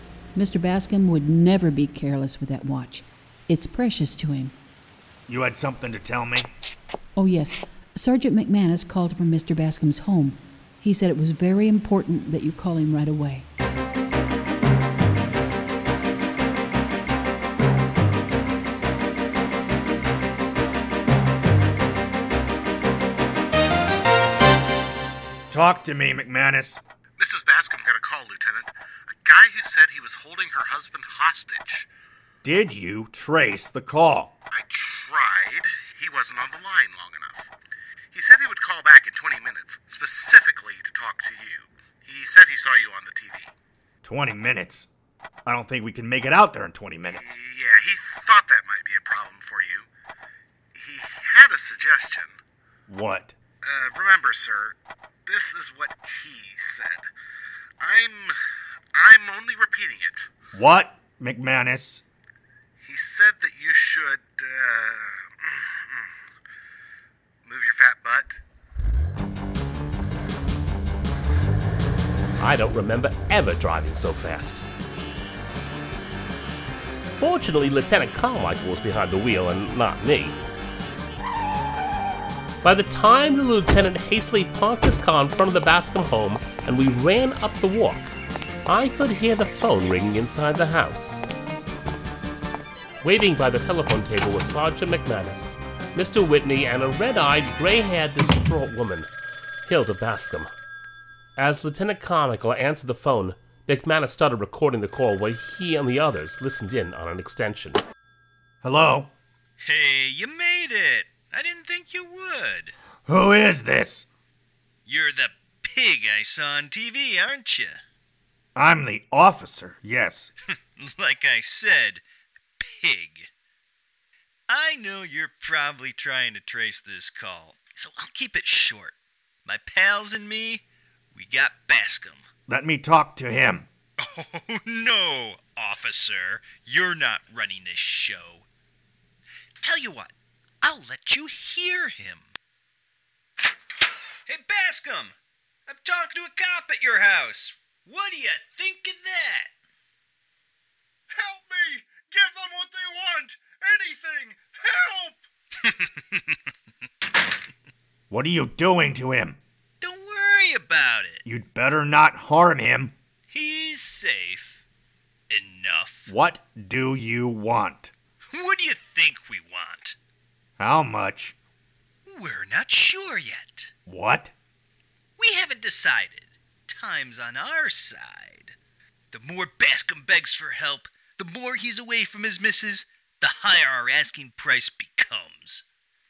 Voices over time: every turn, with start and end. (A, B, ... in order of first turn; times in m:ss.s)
0:00.3-0:04.5 A
0:05.3-0:06.5 B
0:07.2-0:13.4 A
0:25.5-0:26.8 B
0:27.2-0:31.9 C
0:32.4-0:34.3 B
0:34.5-0:37.5 C
0:38.1-0:43.5 C
0:44.0-0:44.9 B
0:45.4-0:47.4 B
0:47.1-0:49.9 C
0:50.7-0:52.4 C
0:52.9-0:53.3 B
0:53.6-0:54.7 C
0:55.2-0:57.1 C
0:57.8-0:58.4 C
0:58.9-1:00.3 C
1:00.5-1:02.0 B
1:02.8-1:06.2 C
1:07.4-1:08.4 C
1:12.4-1:14.7 D
1:17.2-1:20.4 D
1:22.6-1:28.1 D
1:28.6-1:31.3 D
1:33.0-1:39.1 D
1:39.6-1:40.5 D
1:41.4-1:47.8 D
1:48.6-1:49.1 B
1:49.6-1:52.7 E
1:53.1-1:54.0 B
1:54.8-1:57.8 E
1:58.5-2:00.3 B
2:00.8-2:02.0 E
2:02.6-2:03.3 E
2:04.5-2:08.9 E
2:09.4-2:10.6 E
2:11.1-2:12.2 E
2:12.5-2:13.7 B
2:14.0-2:18.4 E
2:19.6-2:22.3 E
2:24.2-2:25.1 E
2:25.7-2:29.5 E
2:31.1-2:34.4 E
2:35.6-2:36.2 E
2:38.1-2:39.4 B
2:39.8-2:41.2 E
2:41.2-2:42.9 B
2:43.3-2:44.6 E
2:45.3-2:46.1 E
2:46.1-2:47.9 B
2:48.3-2:50.0 E
2:50.6-2:51.3 B
2:52.0-2:53.7 E
2:53.9-2:54.3 B
2:55.2-2:58.5 E
2:59.1-3:05.6 E